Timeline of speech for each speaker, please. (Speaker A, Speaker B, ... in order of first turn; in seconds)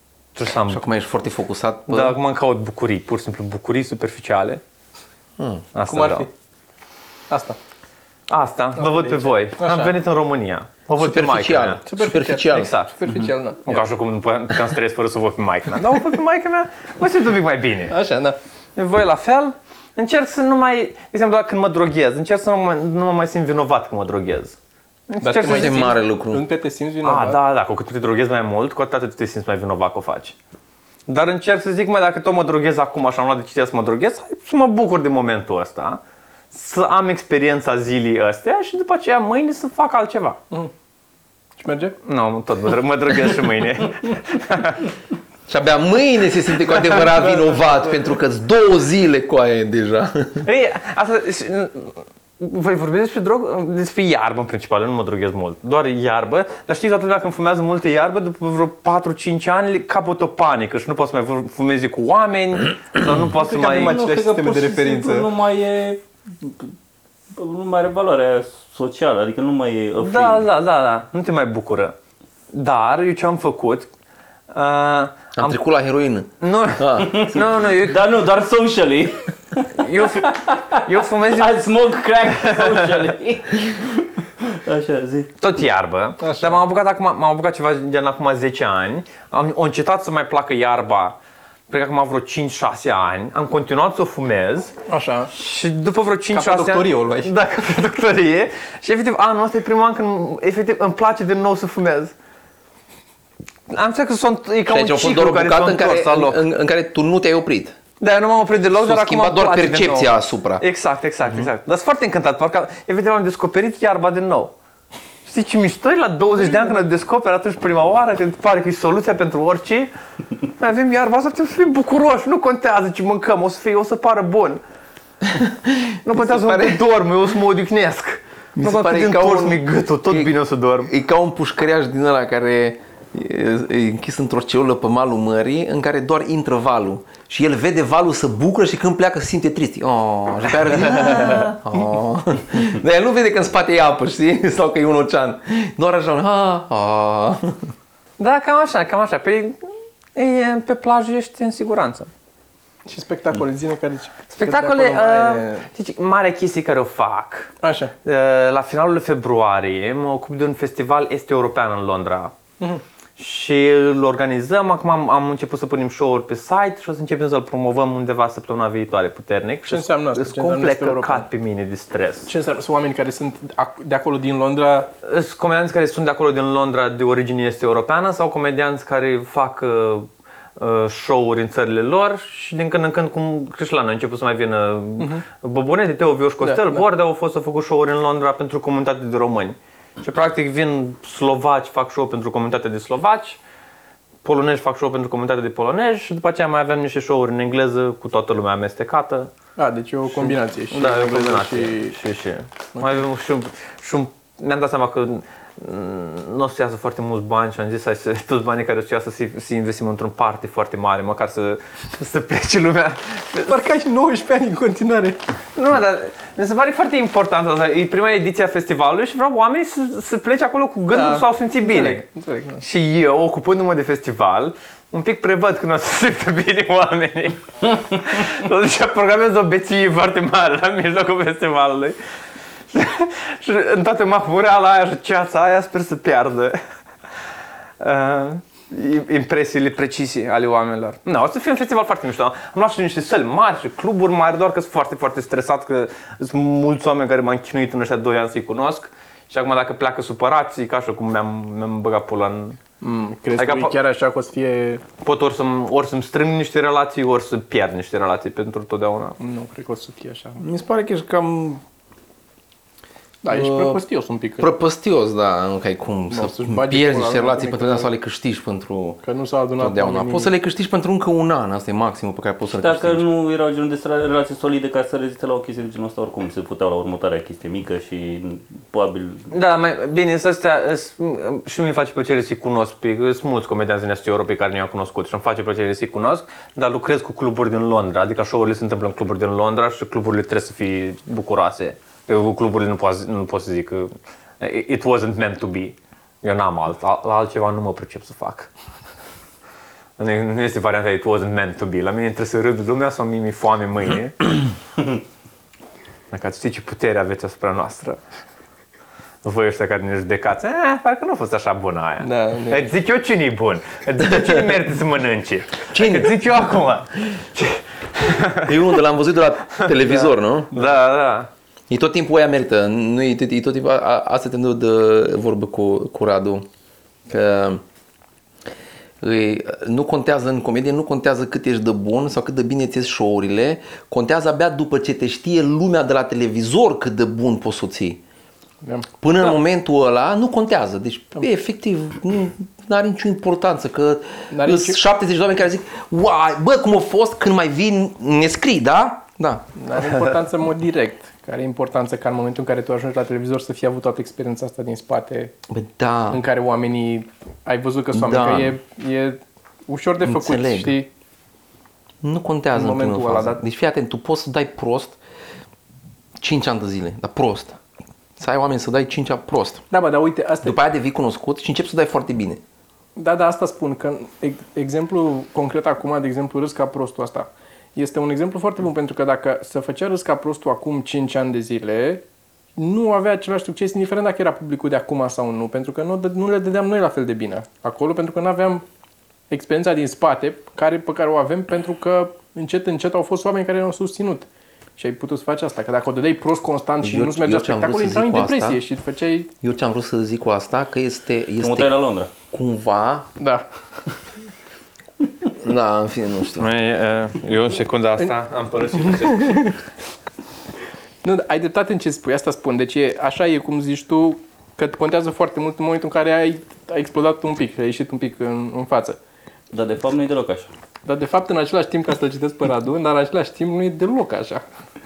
Speaker A: 0.3-0.8, 1.9-4.6, 5.7-6.3, 8.3-11.8, 12.5-12.9, 13.7-17.9, 18.8-24.6, 25.1-25.9, 27.0-30.4, 31.1-36.0, 36.5-40.4, 42.0-44.9, 50.4-64.0, 70.0-71.9, 72.5-73.9, 74.5-75.6, 76.4-78.0, 79.8-81.6, 82.3-83.0, 85.4-91.2, 91.7-94.7, 95.3-102.1, 103.7-106.4, 108.0-114.5, 115.2-119.9, 120.6-124.6, 126.0-130.9, 148.2-149.6, 150.1-152.1, 154.3-157.5, 158.0-162.3, 163.2-172.3, 175.0-193.4, 194.2-199.3, 200.1-213.6, 215.5-222.0, 222.6-232.0, 232.7-236.6, 237.8-252.6, 253.4-253.7, 255.0-259.2, 279.3-298.5, 300.0-304.3, 306.1-308.0, 309.2-318.6, 319.6-321.3, 406.4-409.6
Speaker B: 0.6-2.2, 5.4-5.7, 11.0-12.7, 25.4-26.4, 45.5-50.5, 75.3-77.2, 104.7-107.8, 108.7-110.6, 125.3-126.8, 128.6-147.7, 260.4-261.6, 263.3-263.8, 264.4-269.0, 269.6-273.0, 314.1-314.5, 315.7-316.2, 318.4-320.6, 321.7-326.4, 327.1-327.6, 329.0-338.0, 339.0-349.5, 355.5-356.2, 357.9-358.6, 360.0-360.8, 362.0-365.0, 366.2-367.6, 368.2-369.6, 370.4-372.4, 396.8-398.6, 399.4-401.7, 402.3-403.1, 405.4-406.5
Speaker C: 5.9-6.3, 7.3-7.6, 8.8-9.9, 11.8-13.9, 17.9-18.4, 25.2-27.4, 41.6-42.0, 63.4-65.3, 86.2-86.6, 94.9-95.3, 96.3-97.3, 152.8-155.7, 157.6-157.9, 169.7-171.2, 172.2-174.9, 185.0-185.2, 186.4-186.8, 199.6-202.0, 213.4-215.2, 220.9-222.6, 252.8-254.8, 259.2-260.4, 263.2-264.5, 266.1-267.9, 269.0-270.3, 312.0-312.7, 338.6-338.9, 344.3-344.8, 349.6-355.3, 356.1-360.9, 362.5-363.4, 369.7-370.6, 372.9-382.0, 382.6-388.6, 389.3-399.3, 403.2-403.4, 411.0-419.0, 420.8-424.4
Speaker D: 63.3-66.7, 67.3-70.5, 77.0-85.3, 272.5-279.3, 401.4-402.1, 419.5-420.5